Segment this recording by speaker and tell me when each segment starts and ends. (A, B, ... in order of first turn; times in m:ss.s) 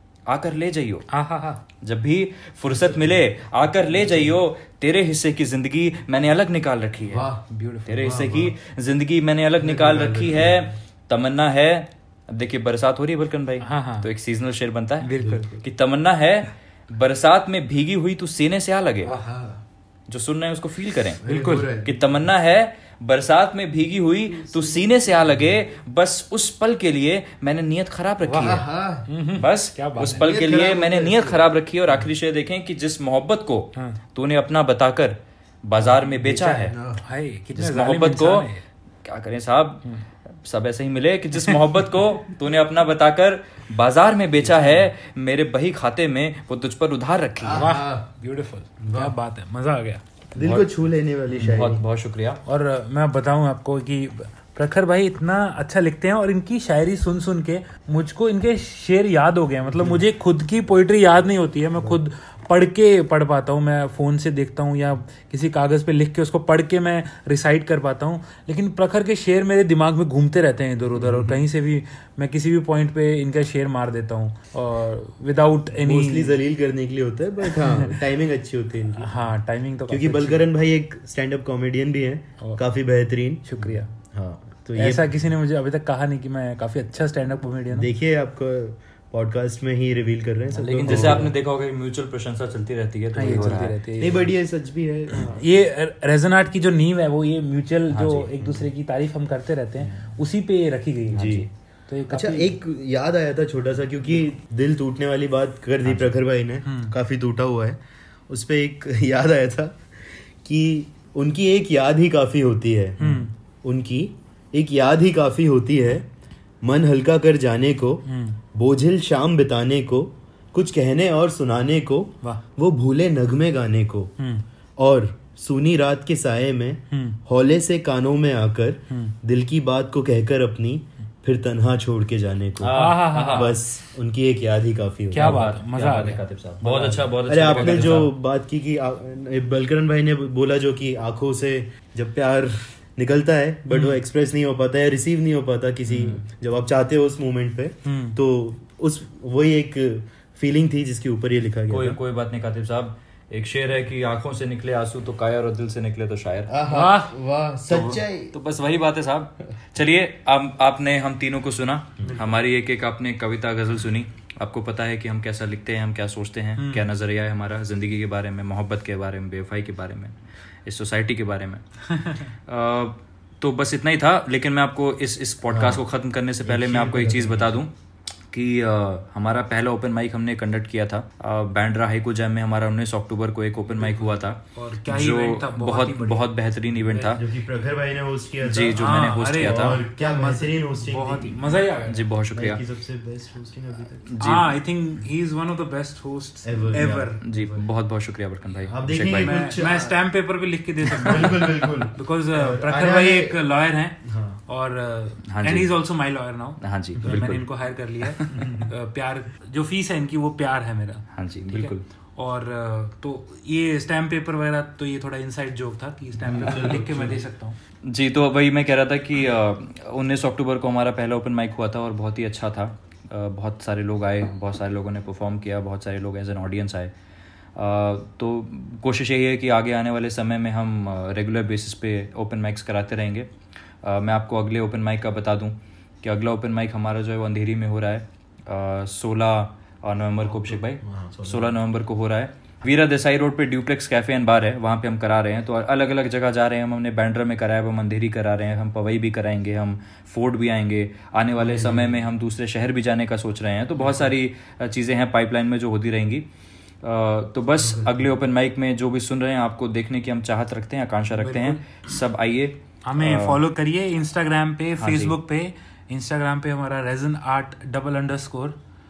0:00.3-0:01.1 A
0:01.1-0:01.6 B
0:01.8-0:07.3 A
0:07.1-0:07.4 C
0:07.2-0:08.0 B
0:07.8-0:19.2 A
0:08.0-0:08.5 C
0:09.6-0:10.6 C
0:13.6-0:14.1 B
0:15.0-0:15.6 B
0:15.2-0:15.5 C
0:19.0-0:19.6 C
0:20.1-0:28.7 A
0:21.2-0:22.1 C
0:21.2-0:21.8 B
0:24.4-0:24.9 C
0:28.2-0:29.1 C
0:29.0-0:30.3 B
0:29.4-0:36.7 A
0:30.2-0:31.4 C
0:36.2-0:37.0 C
0:37.0-0:38.6 B
0:37.5-0:38.5 A
0:39.0-0:39.8 A
0:40.4-0:47.7 A
0:41.5-0:41.8 B
0:47.4-0:48.0 C
0:47.5-0:50.0 B
0:48.8-0:49.1 C
0:50.3-0:51.8 C
0:50.4-0:50.7 A
0:51.3-0:52.4 A
0:52.4-1:16.4 B
0:59.8-1:00.0 C
1:11.0-1:11.4 C
1:15.8-1:19.1 C
1:17.5-1:18.0 B
1:19.0-1:20.5 B
1:19.9-1:25.1 C
1:23.4-1:23.9 B
1:24.8-1:27.9 B
1:27.7-1:31.3 C
1:30.5-1:33.8 A
1:33.1-1:34.3 B
1:33.2-1:35.4 C
1:35.1-1:42.6 B
1:37.9-1:38.3 A
1:38.4-1:38.7 C
1:41.1-1:41.5 C
1:41.2-1:41.4 A
1:42.1-1:47.8 C
1:45.8-1:46.1 A
1:46.6-1:47.0 B
1:48.3-1:49.9 C
1:50.4-1:56.0 C
1:53.0-1:53.3 B
1:56.6-2:04.1 C
1:58.0-1:58.4 B
2:04.2-2:04.4 B
2:04.8-2:15.5 C
2:06.9-2:07.2 B
2:12.6-2:13.6 A
2:12.7-2:13.6 B
2:15.1-2:16.2 B
2:15.1-2:18.1 A
2:16.6-2:32.0 C
2:17.5-2:18.0 B
2:23.7-2:24.0 B
2:25.9-2:26.2 A
2:27.8-2:28.2 B
2:31.7-2:36.5 A
2:36.5-2:38.3 C
2:36.6-2:37.1 B
2:37.7-2:51.6 A
2:42.1-2:42.4 B
2:46.6-2:46.9 B
2:51.9-2:52.2 B
2:52.4-2:57.7 A
2:55.5-2:55.8 C
2:56.4-2:57.6 C
2:58.3-3:07.2 A
3:03.7-3:06.3 B
3:06.8-3:07.2 B
3:07.1-3:08.8 C
3:08.4-3:09.8 A
3:08.7-3:12.1 B
3:09.4-3:11.5 C
3:11.9-3:12.6 A
3:12.3-3:14.1 C
3:14.1-3:14.5 A
3:14.2-3:17.2 B
3:16.4-3:17.6 C
3:17.2-3:19.5 A
3:18.7-3:20.0 C
3:19.1-3:37.6 B
3:20.8-3:23.4 C
3:24.0-3:24.4 C
3:25.3-3:25.7 A
3:26.6-3:27.4 A
3:28.0-3:28.6 A
3:31.1-3:31.8 A
3:36.2-3:37.2 C
3:37.8-3:46.9 A
3:47.6-3:53.3 A
3:53.8-4:16.3 A
4:00.2-4:01.6 C
4:11.4-4:12.0 C
4:16.8-4:23.4 A
4:17.6-4:18.1 C
4:21.1-4:21.8 B
4:22.8-4:28.6 B
4:24.8-4:25.2 A